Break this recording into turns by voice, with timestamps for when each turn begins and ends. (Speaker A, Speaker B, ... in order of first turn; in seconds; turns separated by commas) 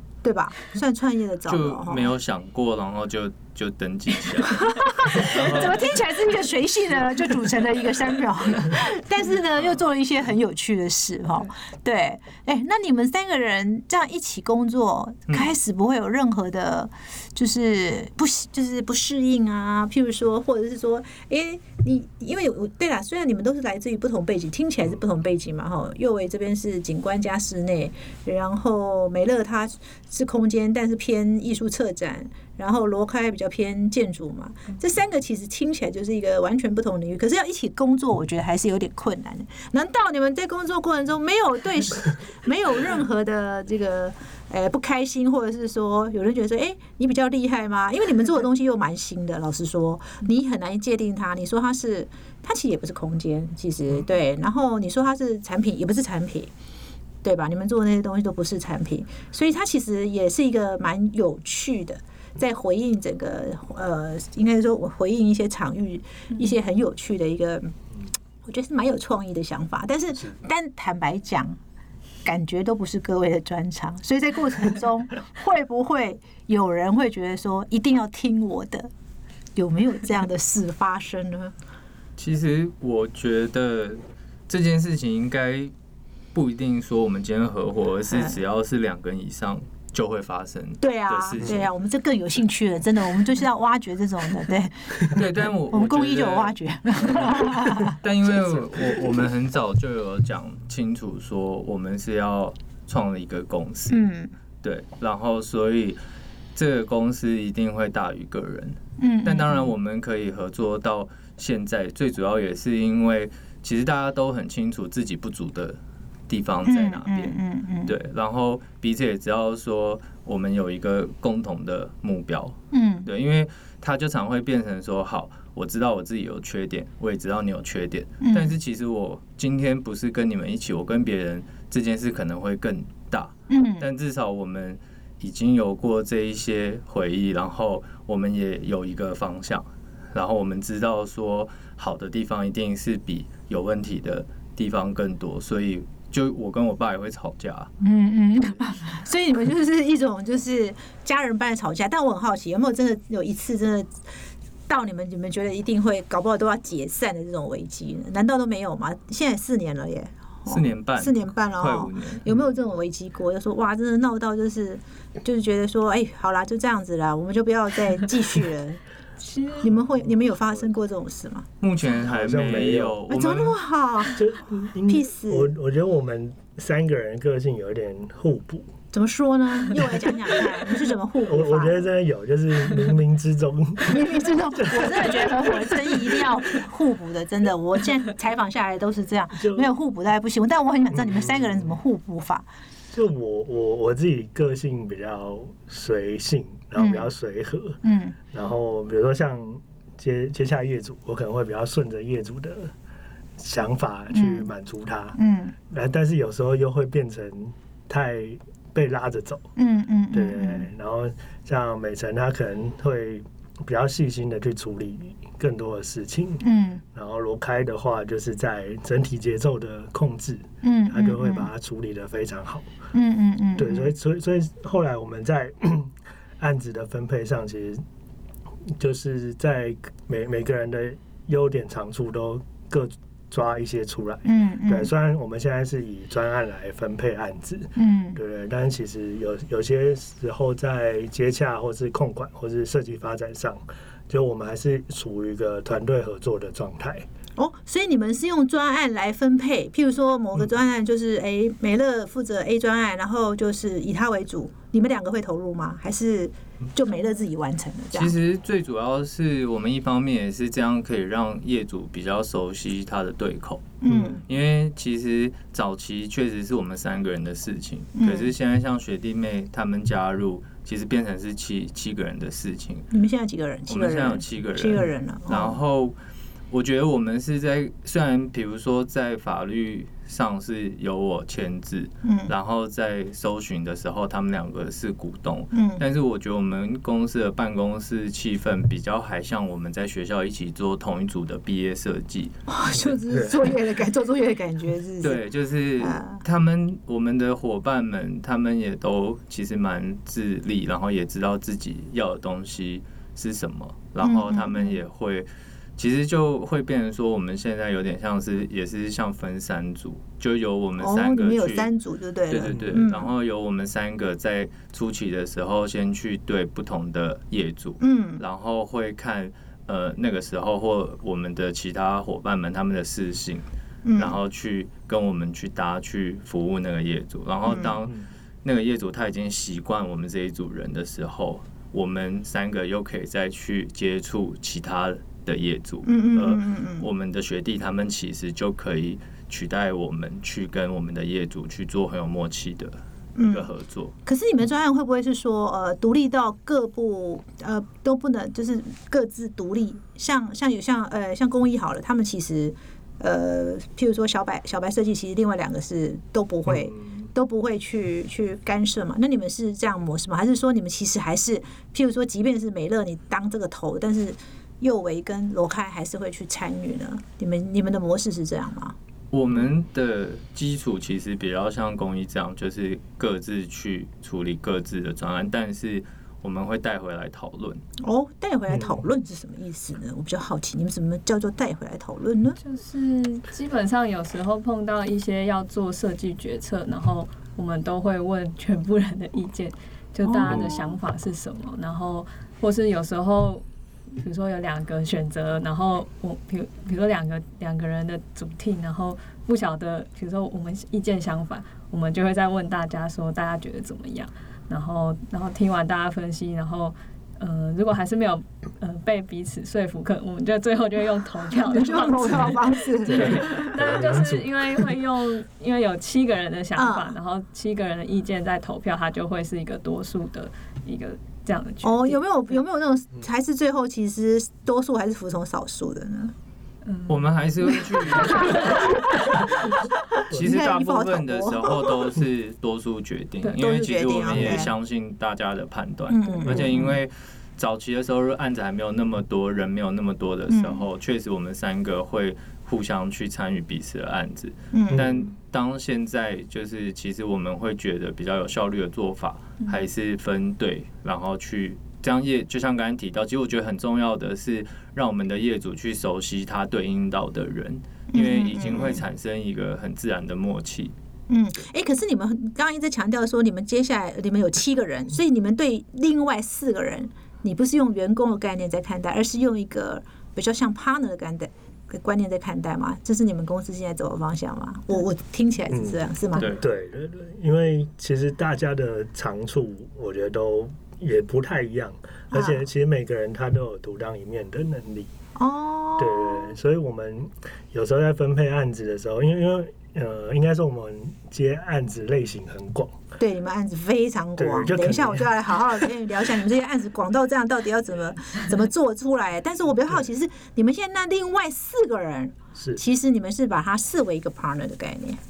Speaker A: 0.2-2.1, Speaker B: 1.5-5.9, Speaker A: 4.5-56.5, Speaker A: 57.2-67.8, Speaker A: 68.4-71.5, Speaker A: 72.2-78.9, Speaker A: 79.5-81.5, Speaker B: 82.2-85.7, Speaker B: 86.3-91.7, Speaker A: 88.1-88.4, Speaker A: 90.8-98.5, Speaker B: 95.1-104.0, Speaker A: 103.9-104.3, Speaker B: 104.6-106.0, Speaker B: 106.5-147.7, Speaker A: 109.0-109.7, Speaker A: 116.6-117.9, Speaker A: 122.7-123.1, Speaker A: 128.2-128.5, Speaker A: 133.5-133.9, Speaker A: 147.8-153.9, Speaker A: 154.7-168.8, Speaker B: 160.5-162.2, Speaker C: 169.2-169.7, Speaker A: 169.6-171.4, Speaker B: 171.6-173.6, Speaker D: 172.0-173.0, Speaker A: 173.1-174.2, Speaker D: 174.1-178.7, Speaker A: 174.9-175.5, Speaker A: 178.9-181.8, Speaker D: 181.2-184.1, Speaker A: 183.8-192.4, Speaker D: 184.6-186.2, Speaker D: 189.3-189.7, Speaker D: 190.9-191.7, Speaker D: 192.9-202.7, Speaker A: 196.8-197.1, Speaker A: 197.8-198.2, Speaker D: 203.4-209.5, Speaker A: 204.1-204.5, Speaker A: 205.2-205.5, Speaker A: 209.6-210.7, Speaker D: 210.1-222.7, Speaker A: 216.4-216.8, Speaker A: 220.6-221.5, Speaker A: 222.9-223.9, Speaker D: 223.6-227.8, Speaker D: 228.8-247.1, Speaker A: 234.2-234.9, Speaker A: 237.8-238.2, Speaker A: 247.4-258.1, Speaker B: 257.9-272.9, Speaker A: 263.8-264.2, Speaker D: 263.9-264.2, Speaker A: 267.9-268.3, Speaker A: 272.9-275.6, Speaker B: 273.7-275.9, Speaker B: 276.5-292.3, Speaker A: 282.0-282.3, Speaker A: 285.5-285.8, Speaker A: 292.5-295.2, Speaker D: 292.8-293.3, Speaker B: 295.0-311.7, Speaker A: 295.8-296.2, Speaker A: 304.0-304.8, Speaker A: 310.8-313.1, Speaker B: 312.3-343.9, Speaker D: 312.5-312.8, Speaker A: 317.8-318.2, Speaker A: 323.8-324.1, Speaker A: 327.4-327.8, Speaker A: 335.8-336.9, Speaker A: 343.1-343.5, Speaker A: 344.1-368.7, Speaker D: 356.5-357.1, Speaker B: 369.1-377.6, Speaker A: 377.8-382.4, Speaker D: 378.5-378.8, Speaker C: 382.4-393.4, Speaker A: 390.0-390.8, Speaker D: 390.3-390.5, Speaker C: 393.9-422.0, Speaker A: 411.4-413.8, Speaker D: 412.8-414.6, Speaker A: 416.6-416.9, Speaker A: 421.6-426.1, Speaker C: 426.6-427.0, Speaker B: 426.9-429.3, Speaker A: 427.6-431.9, Speaker B: 430.1-460.7, Speaker A: 433.4-434.5, Speaker D: 434.1-434.4, Speaker A: 435.9-436.8, Speaker A: 440.3-440.6, Speaker A: 444.5-444.9, Speaker D: 444.7-445.1, Speaker A: 457.9-458.8, Speaker A: 461.1-476.3, Speaker D: 475.5-484.9, Speaker B: 476.1-476.4, Speaker A: 482.1-482.4, Speaker A: 485.1-486.3, Speaker D: 485.8-492.8, Speaker A: 493.0-505.0, Speaker D: 494.2-495.6